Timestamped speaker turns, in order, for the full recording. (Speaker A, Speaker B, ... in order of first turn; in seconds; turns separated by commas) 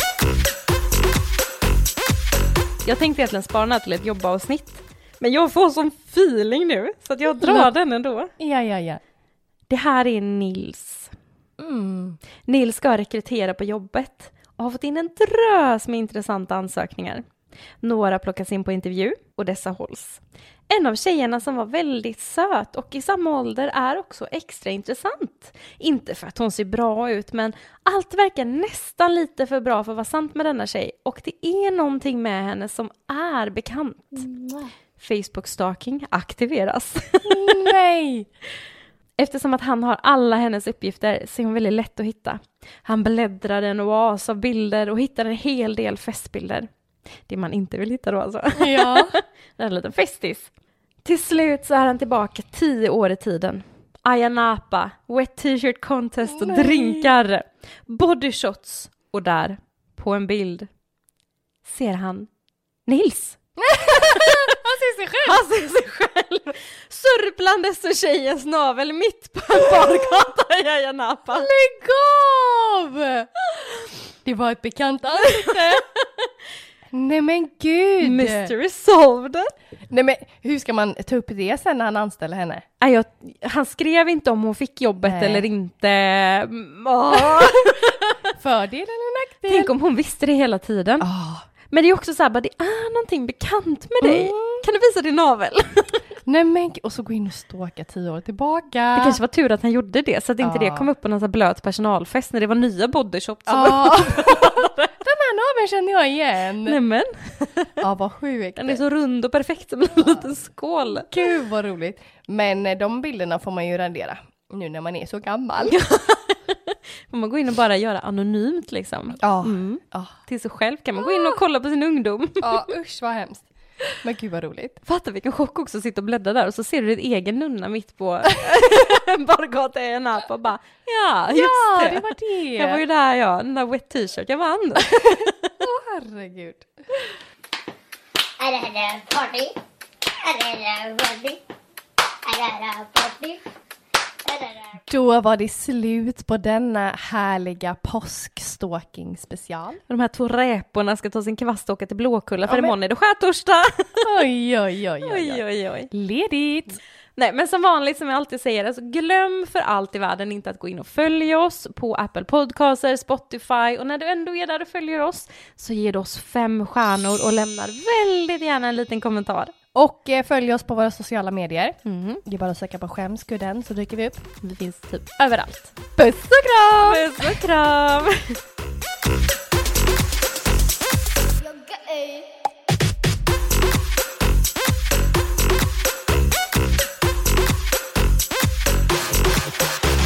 Speaker A: 2.8-8.3, Speaker B: 7.4-7.7, Speaker B: 8.4-9.0, Speaker A: 9.7-11.1, Speaker B: 11.6-12.2, Speaker A: 12.5-17.2, Speaker A: 17.8-34.3, Speaker B: 34.2-34.7, Speaker A: 35.0-37.6, Speaker B: 37.2-38.3, Speaker A: 39.2-46.7, Speaker A: 47.3-50.5, Speaker B: 48.5-49.1, Speaker A: 51.0-60.7, Speaker B: 56.3-57.1, Speaker A: 61.6-62.3, Speaker A: 62.9-64.5, Speaker B: 63.6-65.4, Speaker A: 65.2-71.5, Speaker B: 69.6-69.9, Speaker B: 71.3-73.3, Speaker B: 74.2-75.8, Speaker A: 75.4-76.0, Speaker B: 76.9-78.5, Speaker A: 78.0-79.5, Speaker B: 79.9-82.6, Speaker A: 82.8-88.1, Speaker B: 85.0-85.5, Speaker B: 87.1-87.5, Speaker B: 88.3-89.7, Speaker A: 89.5-91.1, Speaker B: 91.0-91.5, Speaker A: 91.7-96.0, Speaker B: 94.0-94.6, Speaker B: 96.3-99.2, Speaker A: 99.0-104.9, Speaker B: 100.4-100.9, Speaker B: 103.5-106.8, Speaker A: 106.7-107.8, Speaker B: 107.8-108.8, Speaker A: 108.6-111.1, Speaker B: 111.0-115.8, Speaker A: 115.7-122.7, Speaker B: 119.2-120.2, Speaker B: 121.0-121.4, Speaker B: 122.4-123.5, Speaker B: 124.0-124.8, Speaker A: 124.9-135.3, Speaker B: 131.3-132.8, Speaker B: 135.6-136.7, Speaker C: 138.4-139.5, Speaker C: 140.2-141.4, Speaker C: 142.3-143.4, Speaker C: 144.3-144.8, Speaker B: 144.9-149.8, Speaker A: 149.9-154.0, Speaker B: 152.4-152.7, Speaker B: 154.0-156.8, Speaker A: 155.0-155.9, Speaker A: 157.2-169.5, Speaker B: 169.7-174.3, Speaker A: 171.8-172.2, Speaker A: 174.4-175.7, Speaker B: 175.9-177.4, Speaker A: 176.8-178.3, Speaker C: 181.4-182.2